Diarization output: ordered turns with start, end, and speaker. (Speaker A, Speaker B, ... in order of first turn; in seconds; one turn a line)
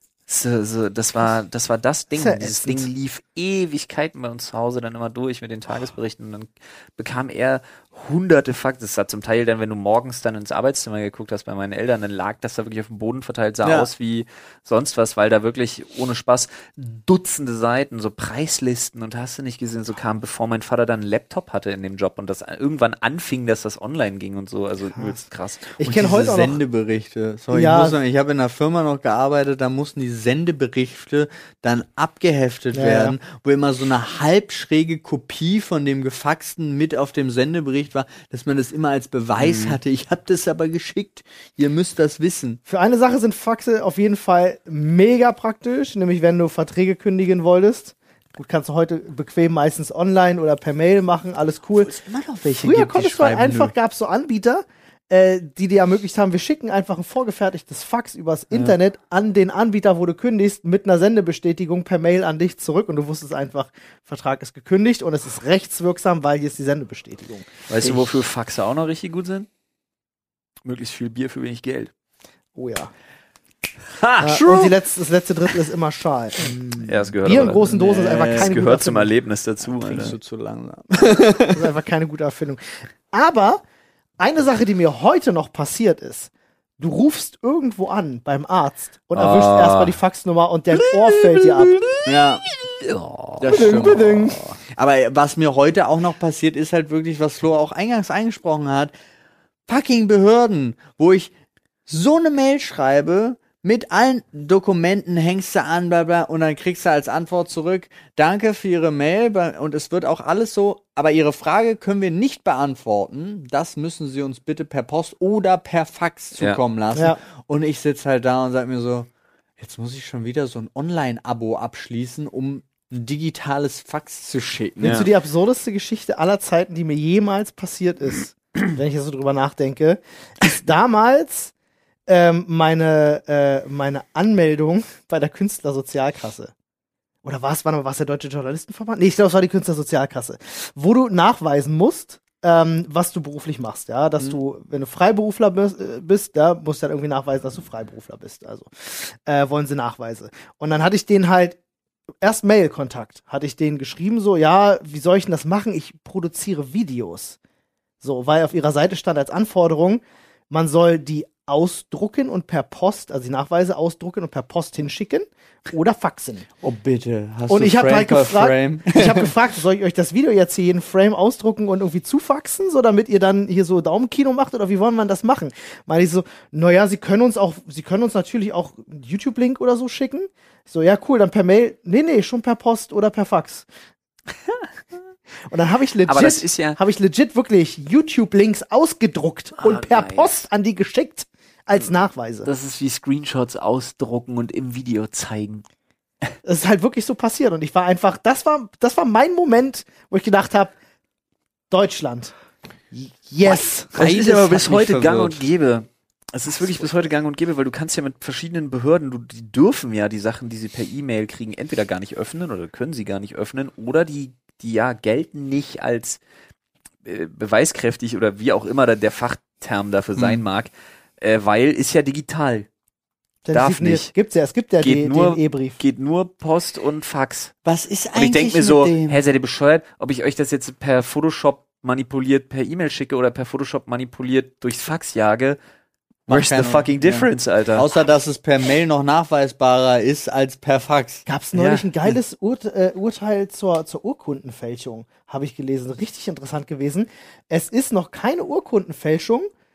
Speaker A: 0.3-25.8
Speaker B: 2.1-2.9
Speaker C: 13.6-13.9
Speaker B: 24.9-25.2
Speaker B: 25.8-26.6
Speaker C: 25.8-42.6
Speaker B: 27.5-27.9
Speaker B: 32.7-33.2
Speaker A: 39.4-39.8
Speaker B: 42.7-51.9
Speaker C: 51.8-53.7
Speaker B: 52.5-68.1
Speaker A: 67.7-69.5
Speaker A: 70.6-71.9
Speaker B: 72.5-72.9
Speaker A: 73.9-74.7
Speaker B: 74.2-79.1
Speaker A: 76.8-80.2
Speaker C: 77.7-78.6
Speaker C: 79.7-81.7
Speaker B: 81.5-83.6
Speaker B: 84.2-91.9
Speaker A: 89.1-90.0
Speaker A: 90.8-92.1
Speaker C: 92.0-92.4
Speaker A: 92.7-94.5
Speaker C: 93.4-98.9
Speaker B: 93.5-94.5
Speaker C: 99.7-101.3
Speaker C: 101.9-125.0
Speaker A: 124.8-125.1
Speaker B: 124.8-131.5
Speaker B: 132.1-136.5
Speaker B: 137.2-151.6
Speaker B: 152.2-157.4
Speaker B: 158.0-166.4
Speaker C: 166.6-169.3
Speaker B: 167.5-183.7
Speaker B: 185.5-192.5
Speaker A: 186.1-186.8
Speaker A: 189.6-190.4
Speaker A: 192.4-195.6
Speaker B: 196.4-200.7
Speaker B: 201.7-202.3
Speaker B: 202.9-203.9
Speaker A: 203.4-216.2
Speaker C: 203.9-205.4
Speaker A: 217.0-222.7
Speaker C: 220.2-220.4
Speaker B: 223.4-225.8
Speaker A: 223.5-224.1
Speaker A: 224.8-227.5
Speaker C: 227.6-229.2
Speaker A: 228.1-235.6
Speaker A: 236.3-237.9
Speaker C: 236.3-241.2
Speaker B: 241.2-249.5
Speaker A: 241.5-242.1